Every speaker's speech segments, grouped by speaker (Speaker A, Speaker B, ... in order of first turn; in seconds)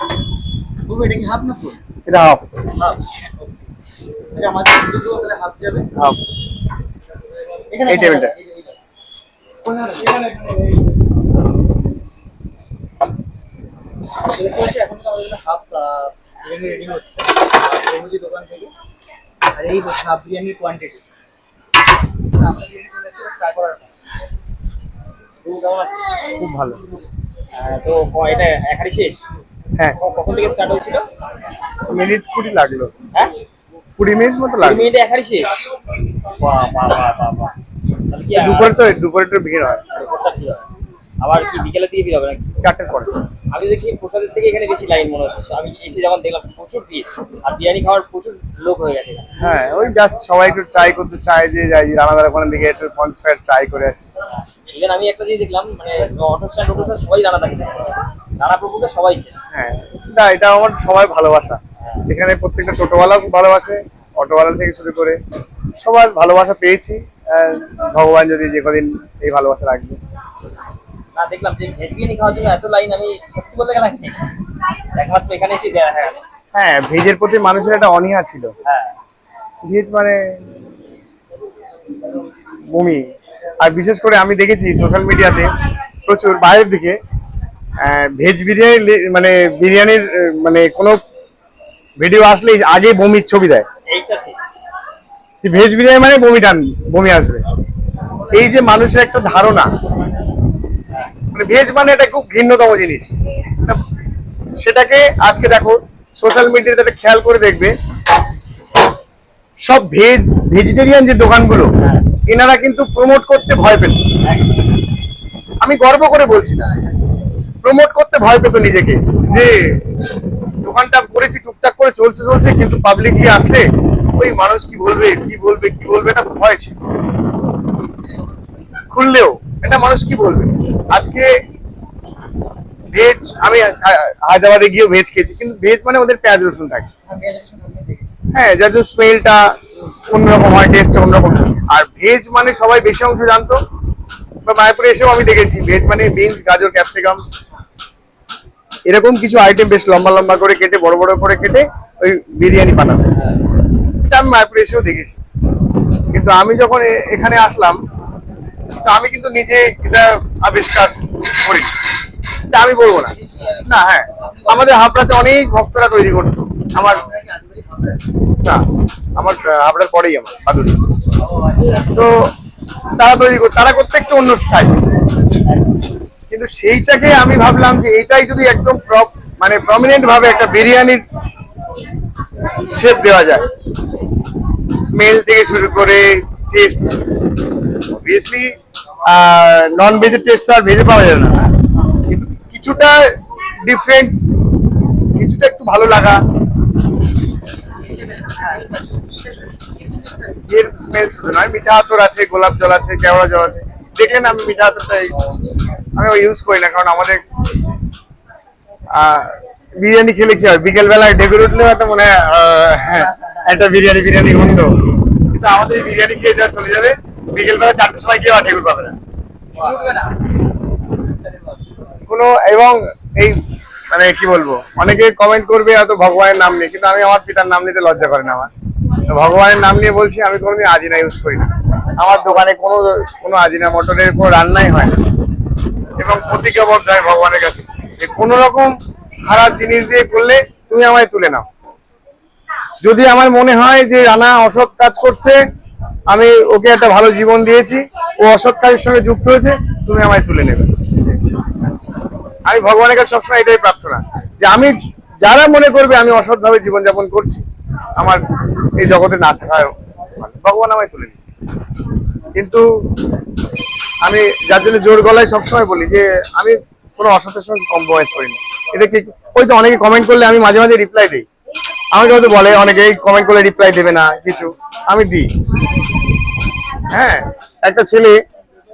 Speaker A: 0.9-1.8, 4.3-5.9, 7.7-8.7, 9.6-10.5, 14.2-18.7, 19.5-21.0, 22.3-23.9, 137.1-138.2, 163.3-163.6, 164.2-164.8, 166.7-168.0, 171.2-172.0, 197.2-200.4, 219.5-220.2
Speaker B: 2.1-2.5, 6.0-6.2, 7.8-8.3, 26.4-26.8, 31.9-32.9, 34.0-34.9, 38.4-39.9, 42.6-43.1, 49.4-54.0, 59.5-65.2, 65.8-70.0, 76.5-78.5, 79.6-80.3, 82.7-83.0, 83.6-87.0, 87.8-91.0, 92.0-93.7, 95.4-97.4, 98.3-99.7, 101.3-103.8, 104.6-107.8, 109.6-111.7, 112.3-114.1, 115.6-116.7, 117.6-119.8, 120.6-126.7, 128.9-131.3, 132.9-136.9, 138.3-143.6, 144.4-147.2, 148.9-153.2, 154.0-155.2, 156.1-157.8, 158.8-161.7, 162.5-167.1, 169.2-170.8, 171.9-172.3, 173.0-174.8, 176.3-181.0, 182.7-183.5, 184.8-187.0, 187.8-191.4, 192.1-194.2, 195.2-196.2, 200.5-205.2, 205.9-207.2, 208.9-219.0, 222.1-228.5, 229.1-235.0, 236.0-238.7, 239.2-241.5, 242.8-245.4, 246.1-250.7, 252.5-257.4, 258.8-261.2, 262.3-262.7, 264.0-271.3, 271.9-275.3, 276.9-278.2
Speaker C: 25.4-26.1, 27.5-29.2, 30.0-31.1, 34.6-35.5, 36.4-37.5, 38.1-38.8, 39.9-40.7, 41.2-42.5, 43.5-49.3, 54.7-59.3, 71.1-74.3, 75.0-76.2, 78.6-78.9, 93.9-94.4, 111.8-112.1, 114.2-114.5